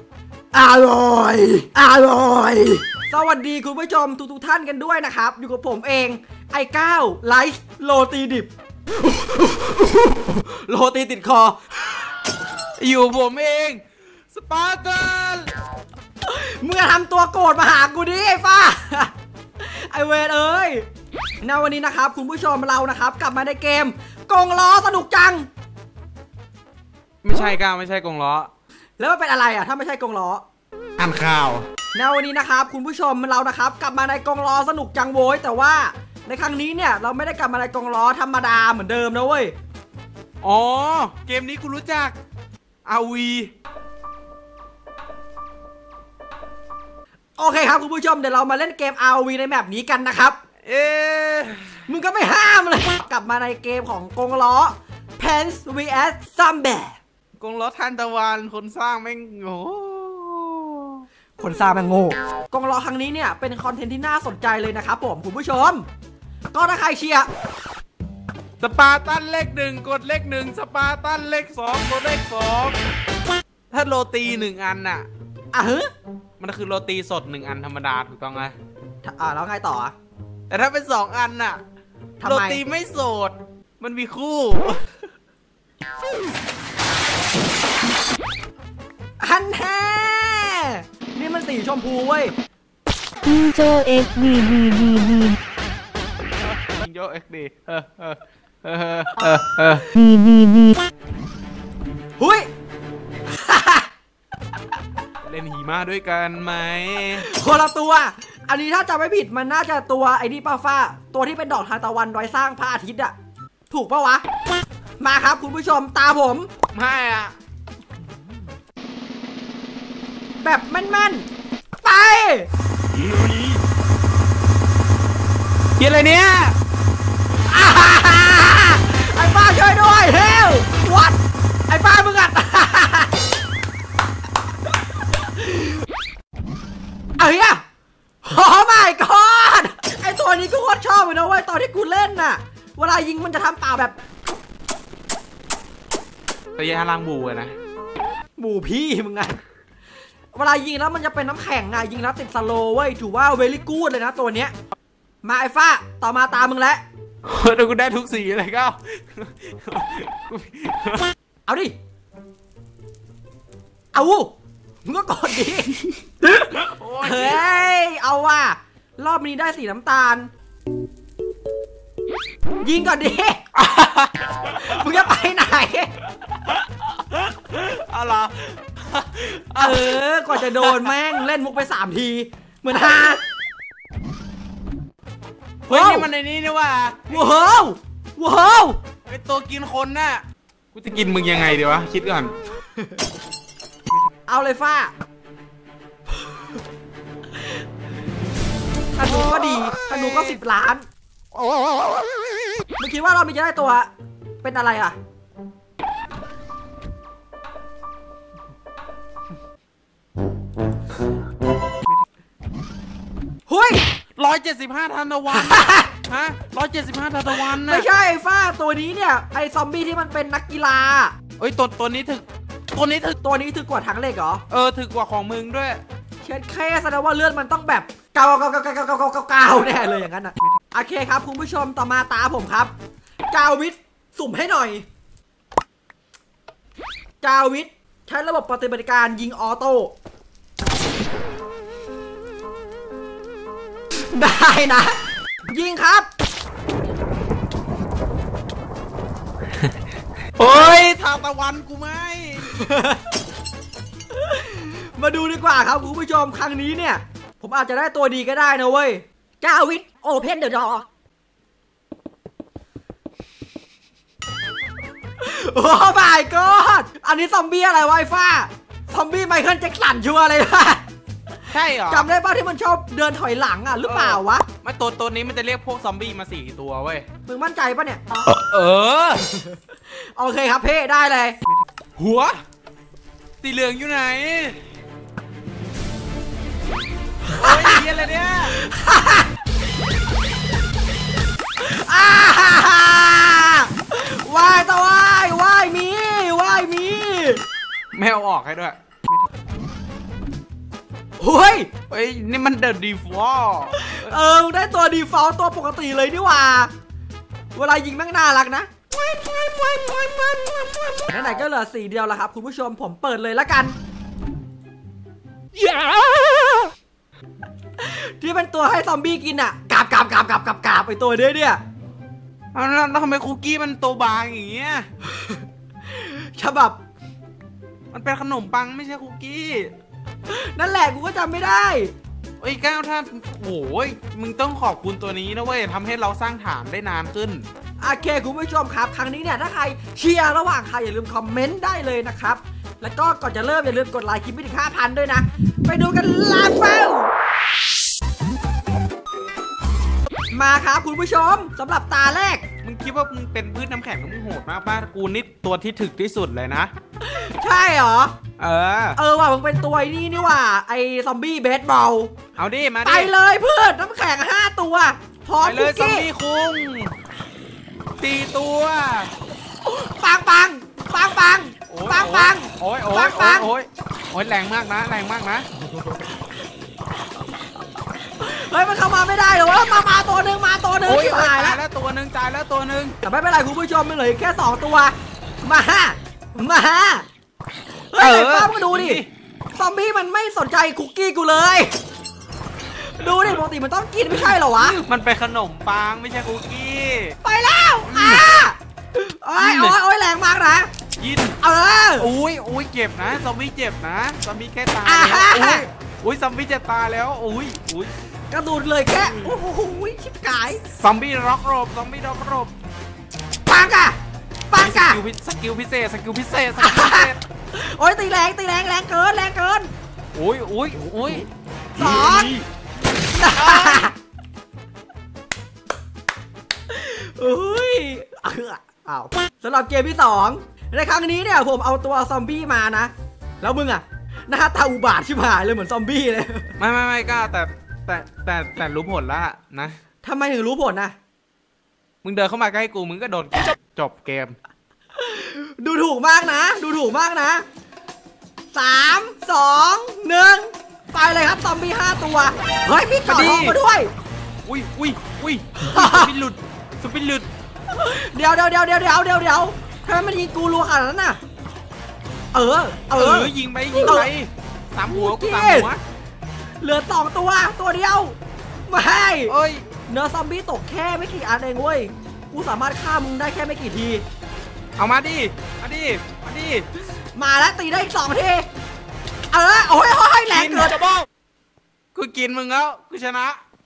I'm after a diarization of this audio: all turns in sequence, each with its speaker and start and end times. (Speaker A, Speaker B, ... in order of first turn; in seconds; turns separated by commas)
Speaker A: 0.5-11.6, Speaker B: 12.8-15.5, Speaker A: 16.2-20.9, Speaker A: 21.4-25.5, Speaker B: 27.2-28.5, Speaker A: 29.0-30.4, Speaker B: 31.0-31.7, Speaker A: 31.9-39.5, Speaker B: 40.4-42.2, Speaker B: 42.9-43.5, Speaker A: 47.4-50.4, Speaker B: 50.6-51.8, Speaker A: 51.9-57.0, Speaker B: 57.4-61.1, Speaker A: 61.4-65.9, Speaker A: 66.5-67.3, Speaker B: 68.6-72.8, Speaker B: 73.7-75.1, Speaker A: 75.5-75.9, Speaker B: 76.4-78.5, Speaker A: 79.0-79.9, Speaker B: 80.5-81.6, Speaker A: 82.2-82.6, Speaker B: 82.2-84.8, Speaker A: 89.2-92.3, Speaker C: 93.3-95.4, Speaker B: 96.4-99.9, Speaker C: 100.0-100.8, Speaker A: 102.2-102.5, Speaker A: 103.3-103.9, Speaker B: 105.2-107.3, Speaker A: 107.2-113.1, Speaker A: 113.7-114.2, Speaker A: 115.0-116.5, Speaker B: 116.7-117.3, Speaker A: 120.4-121.3, Speaker A: 121.8-122.5, Speaker B: 123.1-123.6, Speaker B: 125.8-126.6, Speaker A: 127.5-133.1, Speaker A: 135.3-135.8, Speaker A: 137.2-137.6, Speaker A: 138.2-144.1, Speaker B: 146.6-147.6, Speaker A: 148.4-149.4, Speaker A: 150.3-154.5, Speaker A: 155.2-156.8, Speaker B: 157.2-161.1, Speaker A: 161.5-161.7, Speaker A: 163.9-164.3, Speaker A: 164.8-170.3, Speaker B: 166.5-167.5, Speaker A: 172.6-173.4, Speaker B: 173.6-175.1, Speaker A: 174.4-175.9, Speaker B: 176.2-180.9, Speaker A: 179.6-183.2, Speaker B: 185.7-187.3, Speaker A: 185.7-186.1, Speaker A: 187.1-188.8, Speaker B: 189.1-192.3, Speaker A: 194.3-194.9, Speaker A: 198.9-200.9, Speaker B: 199.0-200.3, Speaker A: 202.8-203.9, Speaker A: 204.4-205.0, Speaker A: 213.5-213.8, Speaker B: 214.2-217.9, Speaker A: 215.3-215.9, Speaker A: 217.5-221.1, Speaker B: 221.4-223.2, Speaker A: 223.2-224.4, Speaker B: 224.5-225.8, Speaker A: 226.2-232.7, Speaker A: 233.3-234.8, Speaker A: 237.2-239.9, Speaker A: 244.1-246.1, Speaker B: 250.4-252.5, Speaker A: 252.5-253.0, Speaker A: 254.1-260.9, Speaker A: 265.2-270.8, Speaker B: 271.5-272.1, Speaker A: 271.9-274.4, Speaker B: 273.9-277.1, Speaker A: 277.3-278.2, Speaker B: 278.2-279.5, Speaker A: 279.9-281.4, Speaker B: 281.5-282.4, Speaker B: 283.4-284.6, Speaker A: 287.3-287.8, Speaker B: 287.3-288.6, Speaker A: 288.5-289.3, Speaker A: 291.6-297.4, Speaker B: 297.9-299.2, Speaker A: 301.2-301.7, Speaker B: 301.9-304.1, Speaker A: 303.7-306.7, Speaker A: 307.5-308.7, Speaker A: 309.3-310.0, Speaker A: 310.9-313.8, Speaker A: 317.8-321.6, Speaker B: 322.5-324.9, Speaker A: 325.0-326.8, Speaker B: 327.9-329.7, Speaker A: 330.3-331.9, Speaker B: 332.4-337.5, Speaker A: 337.8-347.1, Speaker A: 350.3-352.4, Speaker B: 352.6-356.7, Speaker A: 357.0-358.1, Speaker B: 358.4-359.0, Speaker A: 359.0-362.1, Speaker B: 362.4-363.1, Speaker A: 362.9-366.1, Speaker B: 365.4-366.9, Speaker B: 368.0-369.1, Speaker A: 369.6-373.5, Speaker B: 371.7-375.5, Speaker A: 378.2-381.6, Speaker B: 380.8-383.0, Speaker A: 383.0-387.1, Speaker A: 387.9-389.0, Speaker B: 388.0-389.1, Speaker A: 389.6-391.7, Speaker A: 392.7-394.8, Speaker B: 394.5-397.1, Speaker A: 397.2-400.7, Speaker B: 397.9-398.3, Speaker B: 399.4-399.8, Speaker B: 401.0-401.4, Speaker A: 401.4-402.1, Speaker B: 402.0-407.9, Speaker A: 404.9-405.7, Speaker A: 408.3-410.6, Speaker B: 410.7-412.5, Speaker A: 413.5-414.0, Speaker A: 414.5-415.0, Speaker B: 414.5-417.2, Speaker A: 416.6-419.7, Speaker B: 420.1-421.3, Speaker A: 421.8-422.4, Speaker B: 421.8-422.4, Speaker A: 423.1-423.9, Speaker B: 423.3-423.9, Speaker A: 426.7-436.5, Speaker B: 436.6-439.8, Speaker A: 440.0-440.9, Speaker B: 442.0-444.4, Speaker A: 445.0-447.4, Speaker A: 448.5-453.9, Speaker B: 453.1-453.6, Speaker B: 454.4-457.3, Speaker A: 455.6-456.1, Speaker A: 457.7-461.2, Speaker A: 462.3-464.1, Speaker B: 462.9-465.8, Speaker A: 464.9-465.7, Speaker A: 466.6-468.2, Speaker A: 468.7-469.4, Speaker B: 469.3-469.7, Speaker A: 469.9-474.0, Speaker B: 474.8-476.7, Speaker A: 477.1-478.5, Speaker A: 479.3-480.8, Speaker B: 480.3-481.1, Speaker B: 481.9-483.4